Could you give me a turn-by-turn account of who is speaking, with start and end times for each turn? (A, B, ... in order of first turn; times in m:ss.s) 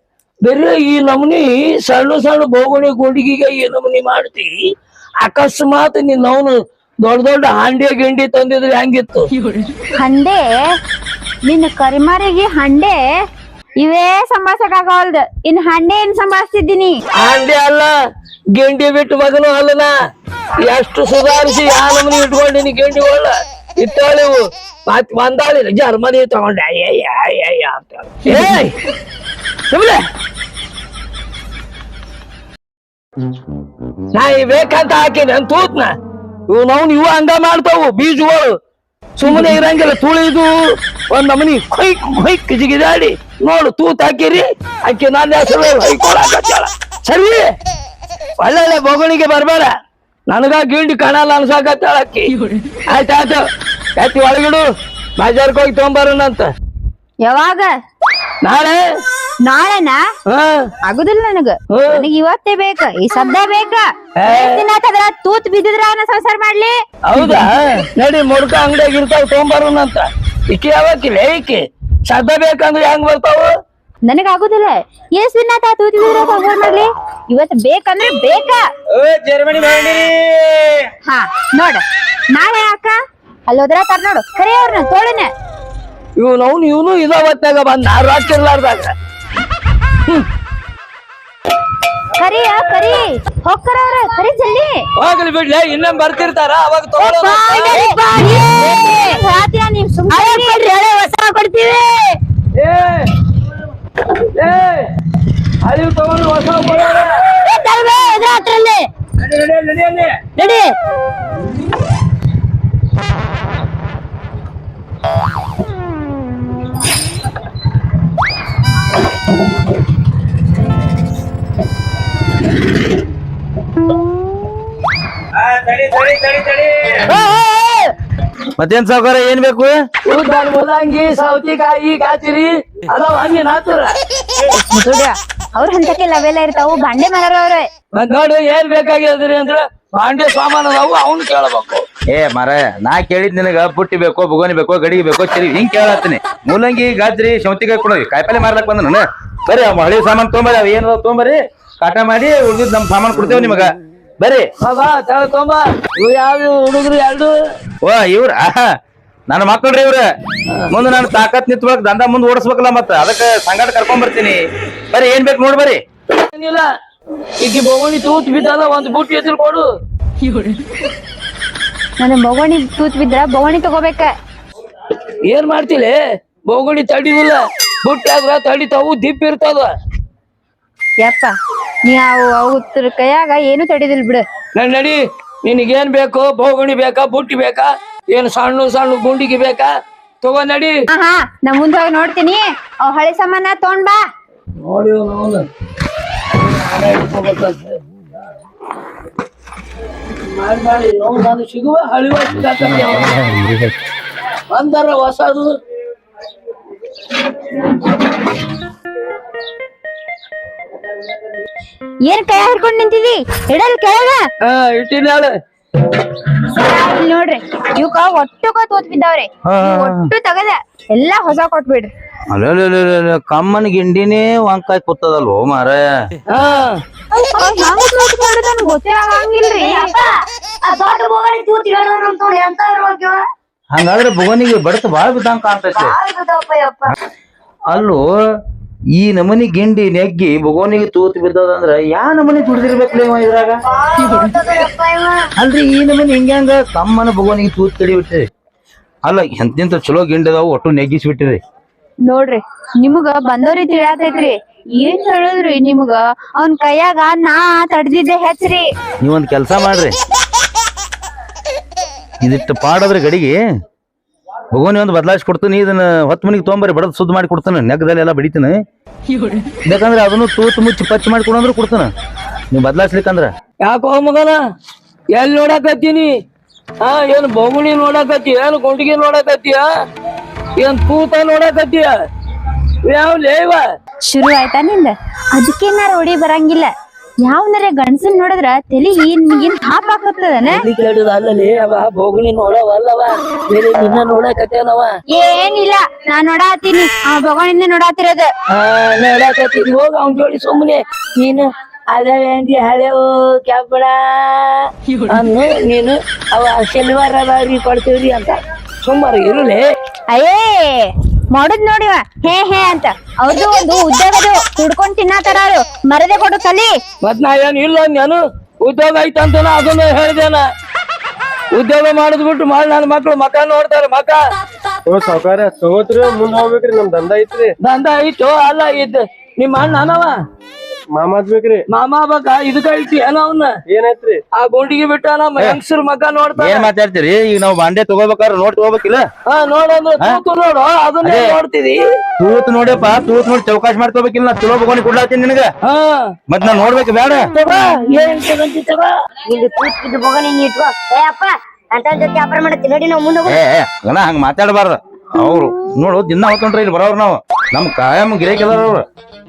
0:00.4-0:04.6 A
0:05.2-0:09.3 A
0:10.0-0:10.7 B
0:11.4-0:13.1 B
0:13.8-0:17.0 B
0:17.2-0:17.9 A
0:18.6-0:19.9 A
0:20.6-0:28.8 A
0:29.7-0:30.0 A
0:34.1-0:35.9 A
0:36.5-0:38.6 A
0:39.2-0:47.5 A
0:48.4-0:49.7 A
0:50.3-0:52.4 A
0:52.9-0:53.4 A
0:54.0-0:54.6 A
0:55.2-0:56.5 A
0:57.2-0:57.7 B
0:58.4-0:58.8 A
0:59.4-1:00.0 B
1:00.3-1:00.7 A
1:00.8-1:07.4 B
1:01.7-1:02.0 A
1:04.2-1:04.6 A
1:07.1-1:13.5 A
1:14.0-1:18.6 B
1:18.9-1:20.9 C
1:21.0-1:25.3 B
1:26.2-1:28.9 A
1:32.2-1:34.8 B
1:35.0-1:37.8 A
1:37.0-1:40.6 B
1:37.6-1:39.2 D
1:40.1-1:42.2 D
1:42.6-1:43.1 A
1:44.3-1:44.9 A
1:45.6-1:47.2 A
1:47.3-1:48.9 D
1:49.2-1:50.2 A
1:50.4-1:50.8 D
2:05.3-2:07.1 C
2:07.1-2:07.9 D
2:08.6-2:09.7 C
2:10.0-2:14.0 A
2:14.5-2:17.7 B
2:18.0-2:21.8 A
2:22.1-2:33.7 C
2:34.6-2:37.3 A
2:37.8-2:38.6 C
2:39.3-2:40.0 C
2:40.7-2:44.4 C
2:44.9-2:45.8 C
2:46.2-2:46.7 A
2:47.4-2:49.6 A
2:52.0-2:54.1 B
2:55.2-2:59.7 A
3:01.0-3:04.2 B
3:04.5-3:10.8 A
3:10.9-3:14.0 B
3:14.6-3:15.5 A
3:16.4-3:17.9 A
3:20.1-3:23.2 A
3:22.5-3:23.8 C
3:24.5-3:25.6 A
3:32.0-3:34.3 B
3:34.4-3:35.3 A
3:36.4-3:41.9 B
3:39.5-3:40.1 C
3:42.3-3:45.9 C
3:46.3-3:46.8 A
3:47.1-3:49.9 B
3:49.5-3:53.2 D
3:53.7-3:55.9 C
3:55.8-3:57.0 D
3:57.7-3:58.0 C
3:59.0-4:03.6 C
4:03.7-4:05.2 D
4:05.4-4:08.2 C
4:09.0-4:11.4 C
4:12.1-4:18.7 B
4:19.0-4:20.0 C
4:22.2-4:23.4 C
4:24.5-4:28.6 C
4:29.7-4:31.9 C
4:32.5-4:33.3 C
4:33.6-4:34.4 A
4:35.1-4:36.1 A
4:36.8-4:39.7 A
4:40.6-4:41.9 A
4:42.8-4:43.6 A
4:44.0-4:50.6 B
4:50.5-4:54.9 A
4:55.1-4:58.3 B
4:58.5-5:09.6 A
5:10.1-5:16.8 B
5:17.0-5:20.4 A
5:21.5-5:24.2 A
5:24.9-5:27.6 E
5:27.6-5:30.2 A
5:30.9-5:31.6 E
5:31.7-5:33.6 A
5:33.7-5:34.2 E
5:34.4-5:36.7 A
5:36.4-5:39.0 C
5:39.3-5:41.8 A
5:41.0-5:41.3 C
5:42.2-5:45.5 C
5:45.6-5:46.2 A
5:46.3-5:47.3 C
5:47.3-5:48.9 A
5:49.3-5:53.4 D
5:53.3-5:58.8 C